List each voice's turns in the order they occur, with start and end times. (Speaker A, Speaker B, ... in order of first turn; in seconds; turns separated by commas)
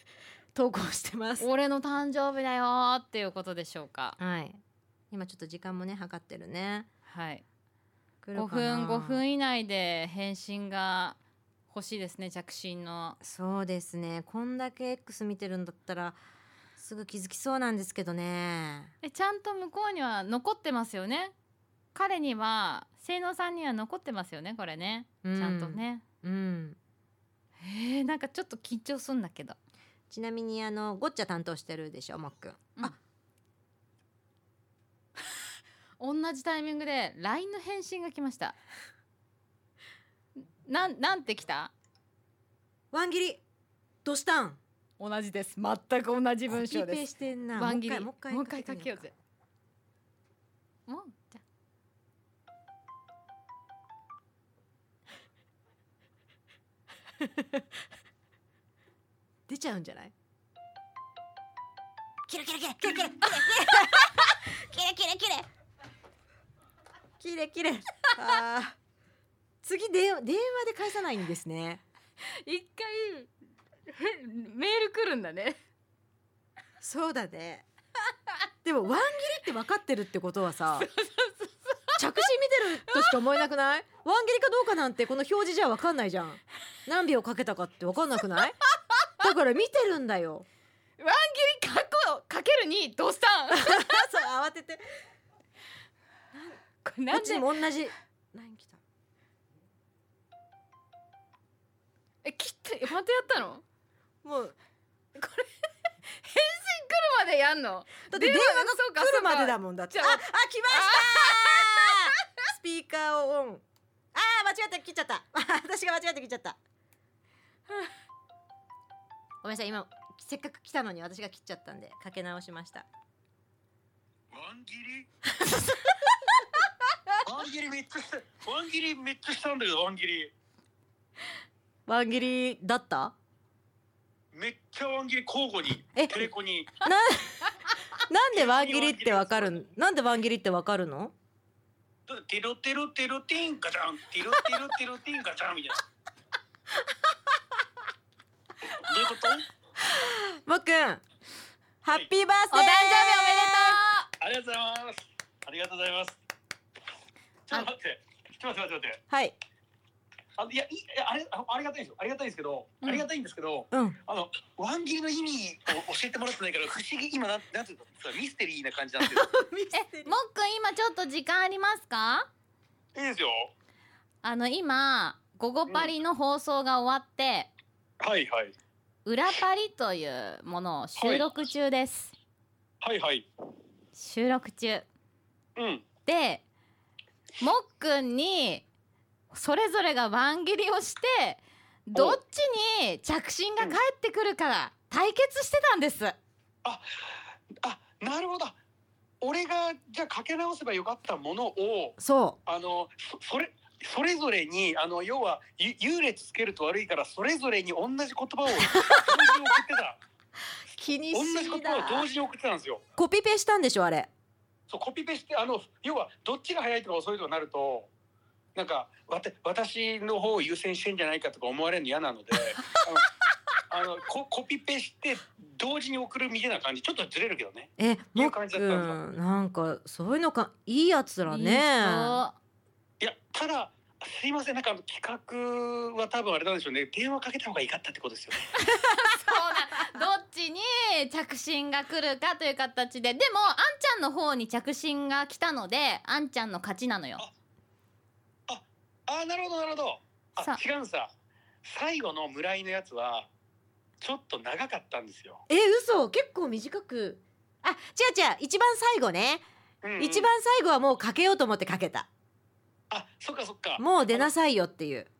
Speaker A: 0.5-1.5, Speaker B: 1.4-4.2, Speaker A: 4.2-4.6, Speaker A: 5.1-6.9, Speaker B: 7.0-7.4, Speaker A: 8.2-9.2, Speaker B: 8.3-11.2, Speaker B: 11.7-13.2, Speaker A: 13.2-16.2, Speaker A: 16.8-18.9, Speaker B: 19.0-21.3, Speaker B: 21.9-26.0, Speaker A: 25.2-26.8, Speaker B: 27.6-29.6, Speaker A: 30.1-33.0, Speaker B: 36.0-38.5, Speaker B: 40.4-41.7, Speaker A: 42.9-43.4, Speaker A: 44.0-44.6, Speaker B: 45.0-49.1, Speaker A: 46.5-49.0, Speaker B: 50.9-51.4, Speaker A: 57.2-57.6, Speaker A: 59.5-60.1, Speaker A: 62.3-65.5, Speaker B: 63.2-63.9, Speaker A: 67.2-68.8, Speaker A: 69.6-71.8, Speaker B: 72.2-73.3, Speaker B: 73.9-75.6, Speaker A: 76.8-77.6, Speaker A: 78.6-80.9, Speaker B: 80.8-82.0, Speaker A: 82.0-88.6, Speaker B: 82.9-83.2, Speaker A: 89.2-90.4, Speaker B: 91.0-94.0, Speaker A: 93.5-94.8, Speaker A: 96.3-96.6, Speaker B: 96.8-97.5, Speaker A: 97.1-98.8, Speaker B: 102.2-103.6, Speaker A: 104.2-104.5, Speaker B: 105.2-105.5, Speaker B: 106.1-112.1, Speaker A: 108.1-113.6, Speaker A: 114.1-116.6, Speaker A: 119.4-122.8, Speaker C: 124.3-125.1, Speaker C: 127.2-130.3, Speaker A: 131.9-133.1, Speaker C: 134.3-136.8, Speaker A: 135.9-136.3, Speaker A: 136.8-137.5, Speaker A: 138.1-141.1, Speaker C: 138.3-139.5, Speaker C: 142.1-145.8, Speaker C: 148.7-149.4, Speaker A: 149.8-151.0, Speaker A: 151.8-153.8, Speaker B: 152.5-154.1, Speaker C: 154.2-156.2, Speaker C: 157.5-159.0, Speaker A: 159.1-159.3, Speaker C: 160.4-169.3, Speaker B: 162.8-163.1, Speaker A: 163.7-164.0, Speaker A: 169.0-170.1, Speaker B: 169.7-172.3, Speaker C: 172.9-173.5, Speaker B: 174.2-177.5, Speaker C: 178.0-178.5, Speaker B: 179.0-182.1, Speaker C: 181.0-181.2, Speaker C: 182.8-183.3, Speaker B: 183.9-184.8, Speaker C: 185.6-185.9, Speaker B: 186.0-186.4, Speaker B: 187.4-188.6, Speaker B: 189.3-196.2, Speaker C: 191.9-192.2, Speaker C: 197.6-198.5, Speaker C: 199.2-210.0, Speaker A: 202.0-202.4, Speaker A: 208.5-209.5, Speaker A: 210.7-212.1, Speaker C: 211.1-212.8, Speaker A: 212.9-214.1, Speaker C: 214.7-217.9, Speaker C: 218.5-223.1, Speaker C: 223.7-229.0, Speaker A: 227.8-232.2, Speaker B: 231.3-232.4, Speaker C: 233.0-238.5, Speaker B: 238.5-247.2, Speaker C: 248.5-251.1, Speaker C: 251.6-253.3, Speaker C: 254.0-255.4, Speaker A: 255.5-259.4, Speaker C: 259.8-260.3, Speaker A: 260.0-262.1, Speaker C: 262.9-264.3, Speaker A: 263.8-265.1